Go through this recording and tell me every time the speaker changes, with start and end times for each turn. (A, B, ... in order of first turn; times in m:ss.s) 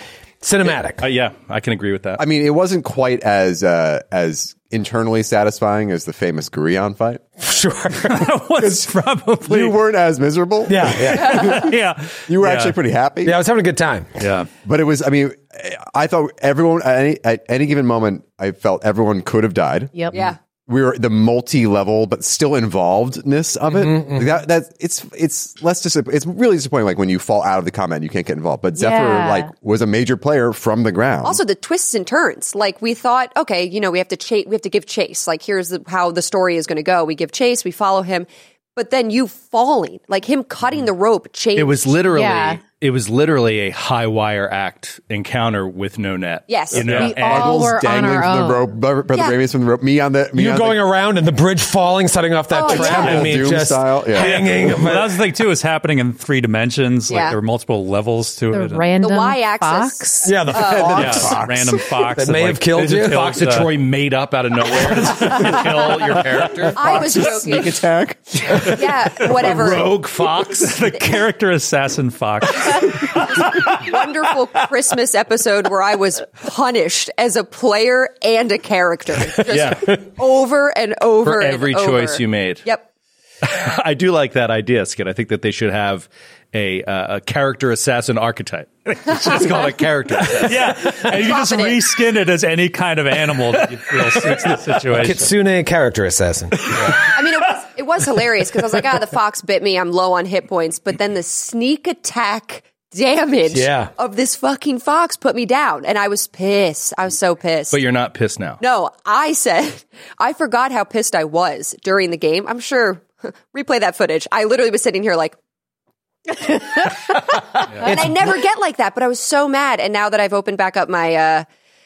0:00.4-0:01.0 A
0:00.7-0:02.2 B
0:02.2-0:07.2 C
0:07.4-0:08.3 A
0:08.1-0:09.7 D
0:08.6-0:08.9 C
0:09.4-0:11.7 C
0:10.7-0:11.7 A
0:11.2-0:11.6 E
0:11.3-0:12.8 D
0:12.2-0:13.4 C
0:13.2-0:14.2 A
0:14.2-0:14.5 D
0:14.6-0:31.4 C
0:23.7-0:24.3 A
0:28.7-0:29.5 F
0:31.2-0:42.0 E
0:41.5-0:47.3 B
0:42.1-0:42.6 F
0:46.5-0:47.1 E
0:46.8-0:47.5 D
0:47.0-0:48.7 F
0:47.0-0:50.8 C
0:49.1-0:49.4 E
0:50.3-0:55.3 A
0:52.5-0:53.3 E
0:52.7-0:54.5 C
0:54.2-0:58.9 D
0:57.1-0:57.4 E
0:58.5-1:00.3 F
0:59.0-1:01.0 E
1:00.2-1:03.6 A
1:00.8-1:03.7 D
1:00.9-1:01.5 C
1:02.7-1:07.7 B
1:06.7-1:07.8 E
1:06.8-1:08.8 C
1:08.5-1:10.8 B
1:08.6-1:10.0 E
1:10.6-1:13.7 D
1:13.3-1:22.9 E
1:19.5-1:20.0 B
1:21.2-1:22.6 B
1:23.4-1:30.7 B
1:30.4-1:35.4 D
1:30.9-1:31.8 E
1:34.9-1:37.1 A
1:37.1-1:47.8 E
1:43.5-1:43.9 A
1:47.7-1:48.6 B
1:48.6-1:55.4 E
1:57.3-2:01.5 E
1:57.8-1:58.4 A